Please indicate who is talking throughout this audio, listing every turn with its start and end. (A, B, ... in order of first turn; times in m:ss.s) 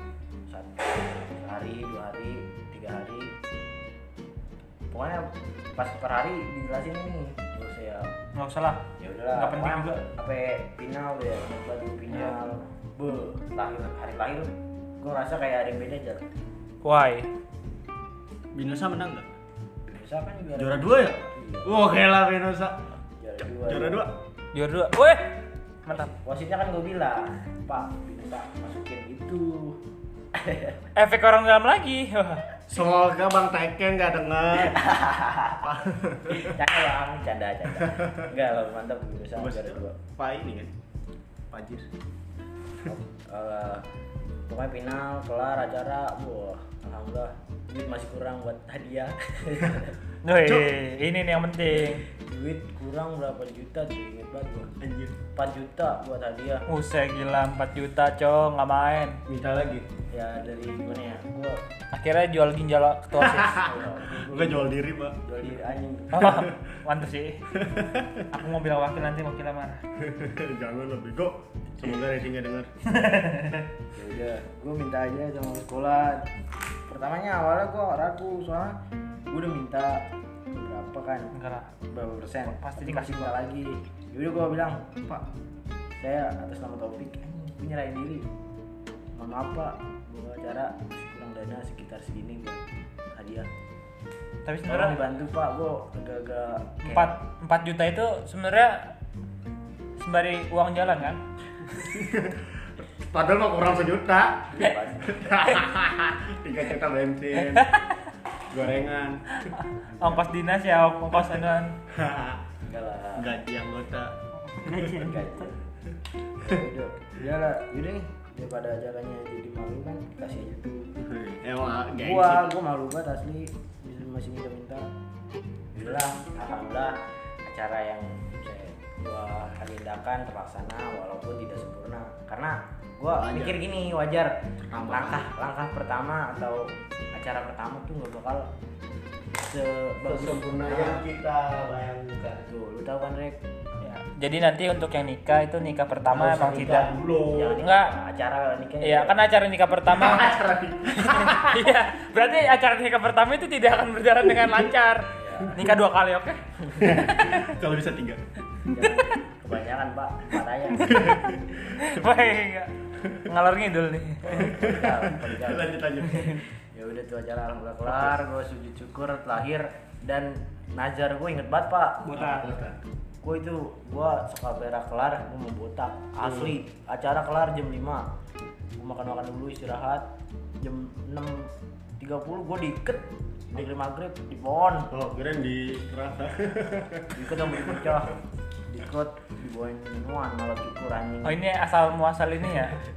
0:00.5-0:03.4 A
0:04.9-0:08.2 A
0:08.4-0:10.0 B
0:09.0-0:16.3 A
0:12.1-0:12.4 B
0:16.8-0:17.3 B
0:18.5-0:19.3 C
0:19.9-0:21.8 A
0:20.6-0:22.9 C
0:23.2-0:24.0 A
0:23.4-0:24.2 C
0:24.5-0:26.1 B
0:25.9-0:29.8 A
0:30.3-0:30.8 A
0:31.0-0:32.4 B
0:32.7-0:34.8 C
0:34.7-0:35.7 A
0:35.6-0:36.6 C
0:36.3-0:40.0 A
0:37.8-0:38.2 C
0:39.4-0:40.7 C
0:41.5-0:41.9 C
0:42.9-0:43.8 A
0:44.5-0:50.0 A
0:50.2-0:52.0 B
0:50.4-0:50.7 C
0:52.1-0:54.7 A
0:54.8-0:55.2 C
0:55.4-0:56.6 A
0:56.7-0:59.2 B
0:59.3-0:59.9 C
1:00.1-1:01.6 A
1:01.9-1:03.7 B
1:03.2-1:05.2 C
1:03.6-1:06.5 A
1:06.1-1:07.4 B
1:06.3-1:06.5 C
1:07.6-1:08.3 C
1:08.3-1:09.8 B
1:10.0-1:12.7 C
1:12.9-1:13.7 B
1:13.9-1:16.3 A
1:16.9-1:18.8 A
1:19.3-1:21.3 A
1:21.3-1:21.7 B
1:21.9-1:25.2 A
1:22.5-1:23.4 B
1:26.0-1:28.3 A
1:29.1-1:33.5 A
1:34.5-1:35.0 B
1:34.7-1:37.2 A
1:36.8-1:38.9 B
1:40.0-1:41.2 B
1:41.8-1:47.7 C
1:44.5-1:45.6 A
1:47.5-1:48.0 B
1:48.5-1:50.2 C
1:50.0-1:51.8 B
1:51.9-1:52.4 C
1:52.6-1:53.3 A
1:53.2-1:54.1 C
1:54.5-1:55.5 B
1:54.7-1:55.6 A
1:56.4-2:00.9 A
2:01.0-2:02.5 C
2:02.0-2:04.9 A
2:05.7-2:18.5 A
2:13.1-2:13.6 C
2:14.6-2:15.3 C
2:19.4-2:21.0 A
2:20.0-2:22.5 C
2:22.5-2:23.4 A
2:23.8-2:26.9 B
2:26.1-2:27.6 C
2:26.4-2:29.2 A
2:27.6-2:27.9 B
2:28.8-2:30.4 B
2:29.9-2:31.5 C
2:31.0-2:36.4 B
2:35.1-2:35.6 A
2:36.7-2:36.9 A
2:36.8-2:38.2 C
2:37.1-2:37.4 B
2:38.6-2:41.0 A
2:40.8-2:41.9 C
2:41.7-2:44.4 B
2:44.2-2:45.8 A
2:44.3-2:46.4 C
2:46.1-2:46.4 B
2:46.7-2:52.2 A
2:52.0-2:52.5 B
2:52.1-2:52.8 C
2:53.2-2:58.1 A
2:56.2-2:56.5 C
2:58.8-3:00.1 A
3:00.6-3:04.9 A
3:04.9-3:08.0 C
3:07.1-3:08.1 A
3:08.7-3:11.4 A
3:11.2-3:12.8 B